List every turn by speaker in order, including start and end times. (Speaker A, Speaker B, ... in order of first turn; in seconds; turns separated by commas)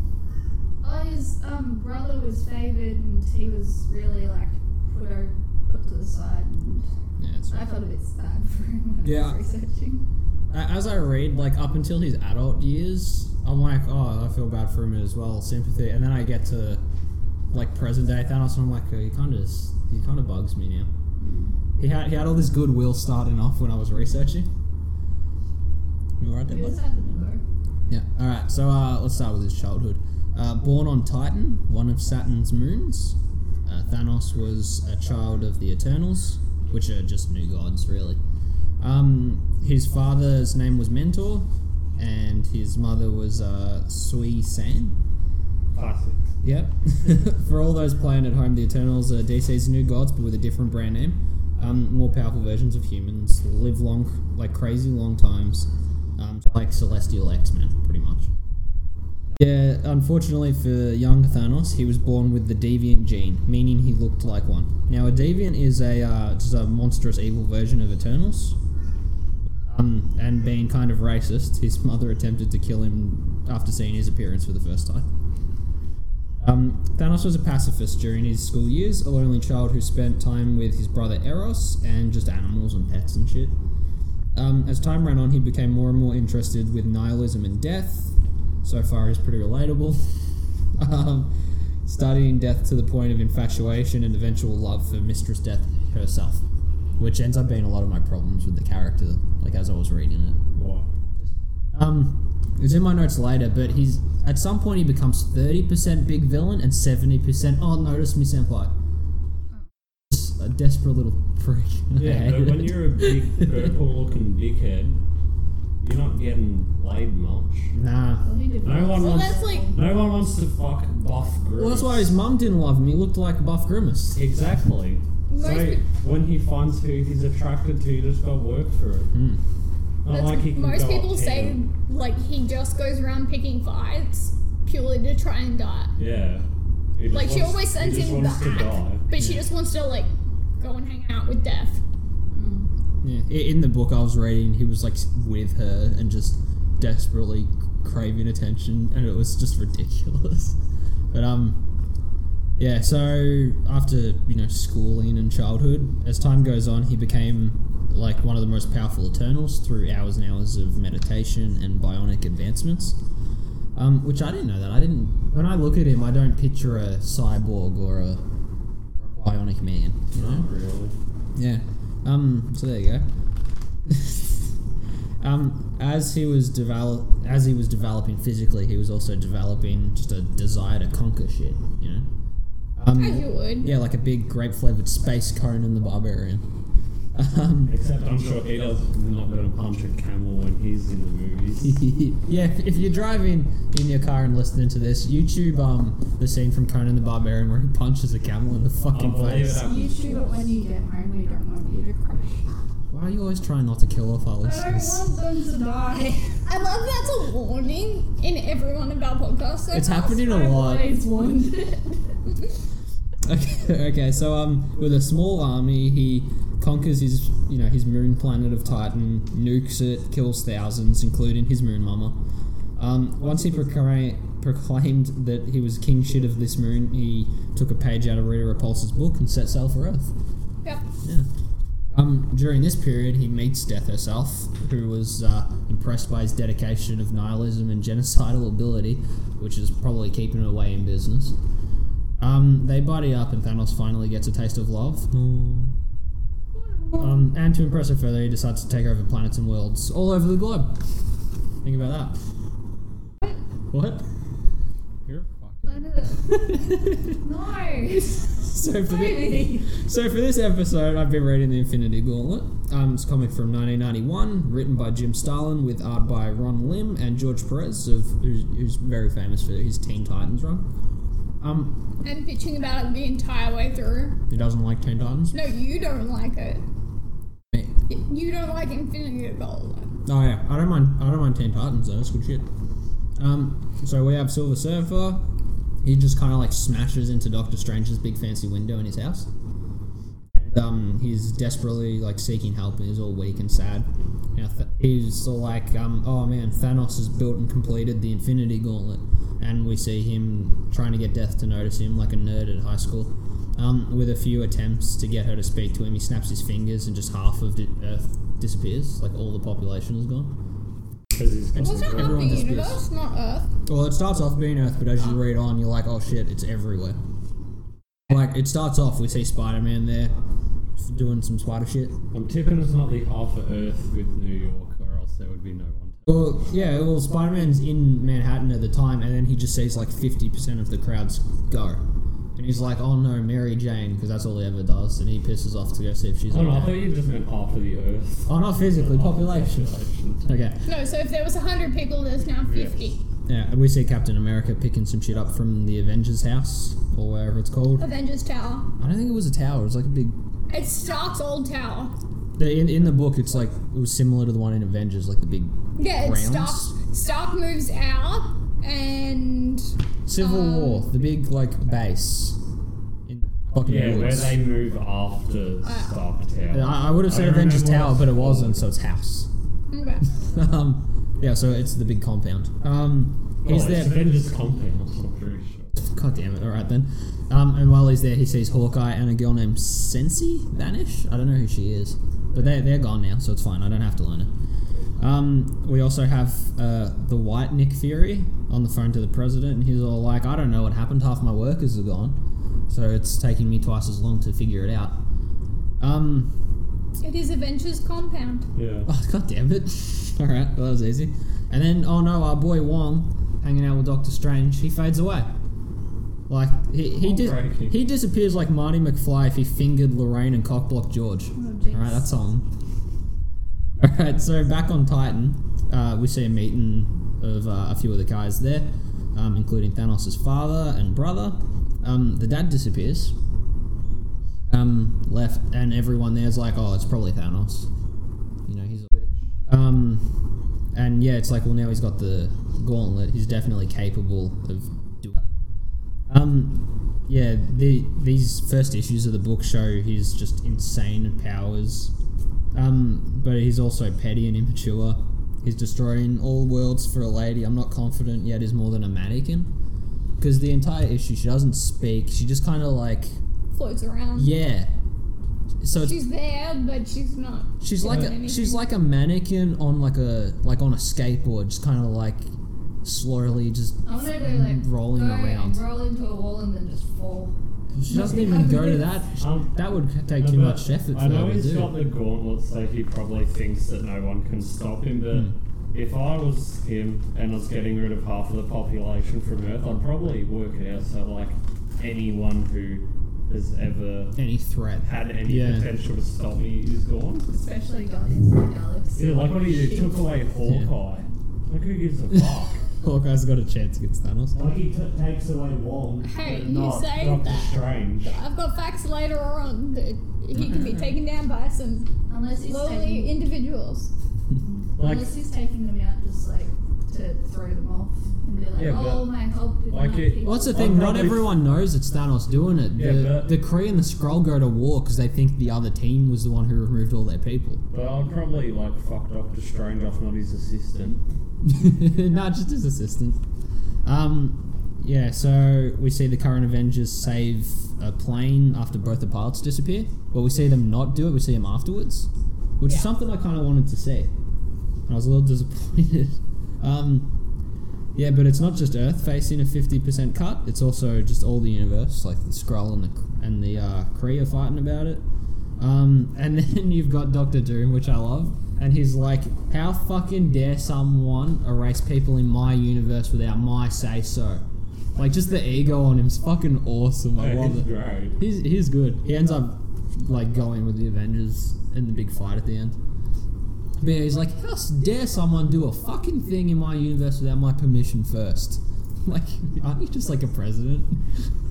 Speaker A: 0.8-6.9, Speaker B: 7.2-7.6, Speaker A: 7.5-10.1, Speaker B: 9.0-9.4, Speaker B: 10.5-16.8, Speaker B: 17.5-20.9, Speaker A: 21.1-21.6, Speaker B: 21.8-24.5, Speaker B: 26.2-26.8, Speaker A: 26.5-27.4, Speaker B: 27.9-38.2, Speaker B: 38.8-45.0, Speaker C: 45.7-46.3, Speaker B: 46.4-58.3, Speaker B: 59.4-68.6, Speaker B: 69.7-75.1, Speaker B: 76.4-83.6, Speaker B: 84.3-90.2, Speaker B: 90.8-91.3, Speaker B: 91.8-96.4, Speaker B: 97.0-100.4, Speaker C: 100.5-100.9, Speaker B: 101.2-108.7, Speaker B: 110.1-113.7, Speaker C: 112.0-115.0, Speaker C: 115.8-117.7, Speaker B: 117.7-118.3, Speaker A: 118.2-119.8, Speaker C: 118.6-122.1, Speaker D: 118.8-119.7, Speaker B: 121.6-124.2, Speaker C: 124.1-129.1, Speaker D: 125.3-125.8, Speaker B: 129.1-129.4, Speaker C: 130.0-131.6, Speaker D: 130.1-135.9, Speaker C: 136.0-139.0, Speaker D: 137.1-141.8, Speaker B: 139.2-139.4, Speaker A: 142.3-142.7, Speaker B: 143.0-150.6, Speaker B: 151.1-151.7, Speaker B: 152.6-163.0, Speaker B: 163.7-168.2, Speaker B: 169.0-170.5, Speaker C: 170.1-170.9, Speaker B: 171.3-173.1, Speaker B: 173.9-174.4, Speaker B: 175.2-182.1, Speaker B: 182.8-186.4, Speaker D: 182.9-183.7, Speaker B: 187.1-187.7, Speaker C: 187.7-191.8, Speaker B: 191.6-199.7, Speaker C: 198.9-200.0, Speaker A: 199.6-202.5, Speaker B: 202.9-205.0, Speaker A: 204.4-206.4, Speaker D: 206.4-210.3, Speaker B: 209.7-211.0, Speaker A: 210.2-212.2, Speaker B: 213.2-222.2, Speaker B: 222.8-230.1, Speaker B: 231.0-231.3, Speaker B: 231.9-241.4, Speaker B: 242.2-245.2, Speaker C: 245.1-245.7, Speaker B: 246.9-250.9, Speaker B: 251.6-252.2, Speaker B: 253.7-254.1, Speaker C: 255.0-255.9, Speaker A: 255.7-256.3, Speaker B: 256.1-257.2, Speaker A: 257.2-259.6, Speaker B: 258.3-270.7, Speaker B: 271.4-271.8, Speaker D: 272.0-274.2, Speaker B: 274.3-275.3, Speaker D: 275.3-276.6, Speaker D: 277.9-279.9, Speaker B: 280.0-282.5, Speaker B: 283.2-285.3, Speaker B: 285.8-289.3, Speaker B: 290.3-310.4, Speaker C: 311.1-312.4, Speaker B: 311.5-312.8, Speaker D: 311.6-313.5, Speaker B: 313.6-317.0, Speaker B: 318.1-320.1, Speaker B: 320.8-322.0, Speaker C: 322.1-326.2, Speaker B: 326.1-331.8, Speaker B: 332.4-336.9, Speaker C: 336.3-340.3, Speaker B: 338.3-340.6, Speaker D: 340.6-343.0, Speaker C: 342.5-342.8, Speaker B: 343.3-347.9, Speaker D: 347.8-348.7, Speaker B: 348.8-350.2, Speaker D: 350.5-351.9, Speaker B: 352.4-356.7, Speaker D: 355.8-360.9, Speaker B: 360.1-362.4, Speaker B: 363.1-364.4, Speaker C: 363.6-368.6, Speaker D: 365.6-366.0, Speaker B: 366.5-369.3, Speaker D: 369.7-370.0, Speaker B: 370.1-374.0, Speaker C: 373.4-375.7, Speaker B: 375.7-384.3, Speaker B: 385.0-395.0, Speaker B: 395.8-396.4, Speaker D: 397.0-398.5, Speaker C: 398.5-398.9, Speaker B: 398.9-405.3, Speaker B: 406.3-412.5, Speaker C: 407.0-407.8, Speaker A: 411.3-412.1, Speaker B: 413.8-423.1, Speaker B: 424.5-427.7, Speaker B: 428.4-430.2, Speaker B: 430.7-435.2, Speaker B: 436.1-441.9, Speaker B: 442.5-449.5, Speaker B: 450.2-453.2, Speaker D: 453.5-454.3, Speaker B: 454.1-454.7, Speaker B: 455.6-456.0, Speaker D: 455.7-458.6, Speaker B: 457.6-462.3, Speaker B: 462.8-465.6, Speaker A: 463.8-467.3, Speaker B: 467.7-471.8, Speaker A: 467.9-468.9, Speaker C: 468.1-468.4, Speaker C: 469.2-469.6, Speaker C: 470.1-484.2, Speaker B: 484.1-485.7, Speaker C: 484.8-487.3, Speaker A: 487.3-490.0, Speaker C: 488.9-492.6, Speaker B: 490.4-490.7, Speaker B: 492.8-494.4, Speaker C: 494.3-498.2, Speaker D: 496.0-503.9, Speaker B: 500.4-500.7, Speaker A: 502.1-503.1, Speaker A: 504.4-510.7, Speaker C: 504.8-505.1, Speaker C: 508.6-511.3, Speaker B: 510.2-517.6, Speaker C: 512.7-513.4, Speaker C: 517.7-521.0, Speaker B: 521.4-523.2, Speaker B: 523.8-534.1, Speaker B: 534.9-537.1, Speaker B: 537.9-545.0, Speaker B: 545.6-554.4, Speaker B: 554.9-562.8, Speaker C: 557.1-558.2, Speaker B: 563.8-571.2